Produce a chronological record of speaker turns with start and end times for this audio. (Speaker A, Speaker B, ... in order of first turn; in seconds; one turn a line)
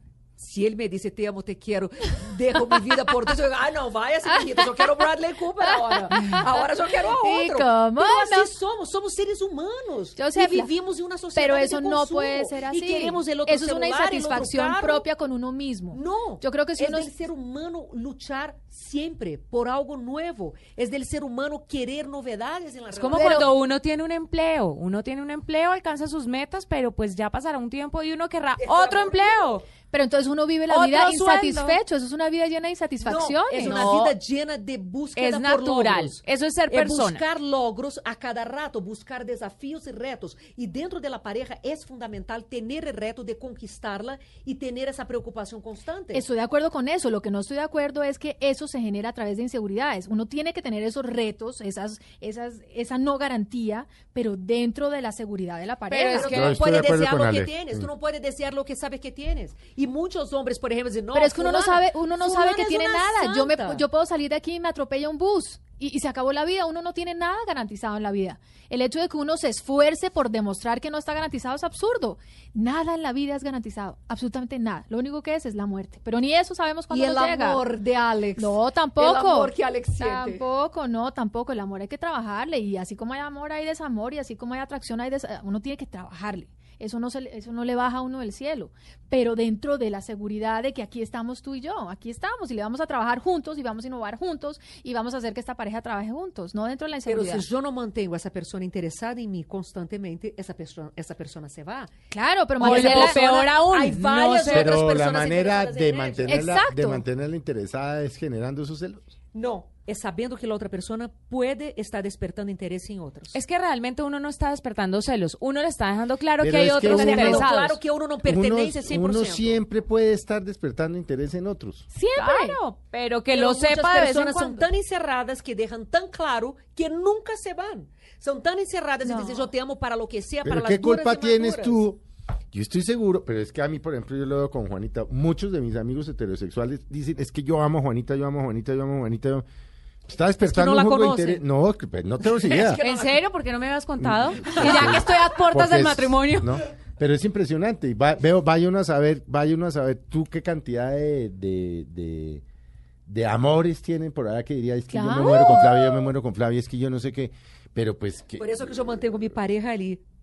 Speaker A: 0.4-15.1
Speaker B: 6.0-6.4
Speaker B: 7.2-8.5
Speaker B: 10.2-10.7
Speaker B: 11.3-17.1
Speaker A: 15.9-23.5
Speaker C: 22.9-29.6
Speaker B: 23.1-23.5
Speaker A: 28.6-29.4
Speaker B: 29.9-33.8
Speaker C: 30.7-31.6
Speaker A: 30.7-31.8
Speaker A: 33.0-46.2
Speaker C: 33.5-34.1
Speaker C: 35.1-37.2
Speaker B: 46.1-56.3
Speaker C: 55.9-56.5
Speaker A: 56.1-63.8
Speaker D: 56.2-57.9
Speaker B: 61.1-77.6
Speaker A: 76.9-80.4
Speaker B: 78.4-97.5
Speaker A: 97.0-101.9
Speaker B: 102.1-103.2
Speaker C: 102.6-104.8
Speaker A: 102.6-106.4
Speaker D: 104.4-109.1
Speaker B: 106.2-107.0
Speaker A: 109.3-113.4
Speaker C: 113.3-117.8
Speaker D: 116.4-117.5
Speaker A: 116.8-119.6
Speaker D: 118.2-121.8
Speaker B: 121.9-122.6
Speaker C: 122.1-124.7
Speaker A: 123.3-131.8
Speaker B: 129.0-129.5
Speaker D: 130.4-132.0
Speaker D: 132.5-139.4
Speaker D: 140.1-142.8
Speaker A: 140.4-141.4
Speaker A: 142.3-143.2
Speaker C: 142.8-146.6
Speaker D: 144.0-152.4
Speaker A: 144.5-144.7
Speaker D: 153.1-158.5
Speaker B: 154.9-155.7
Speaker C: 155.2-155.6
Speaker A: 158.4-160.0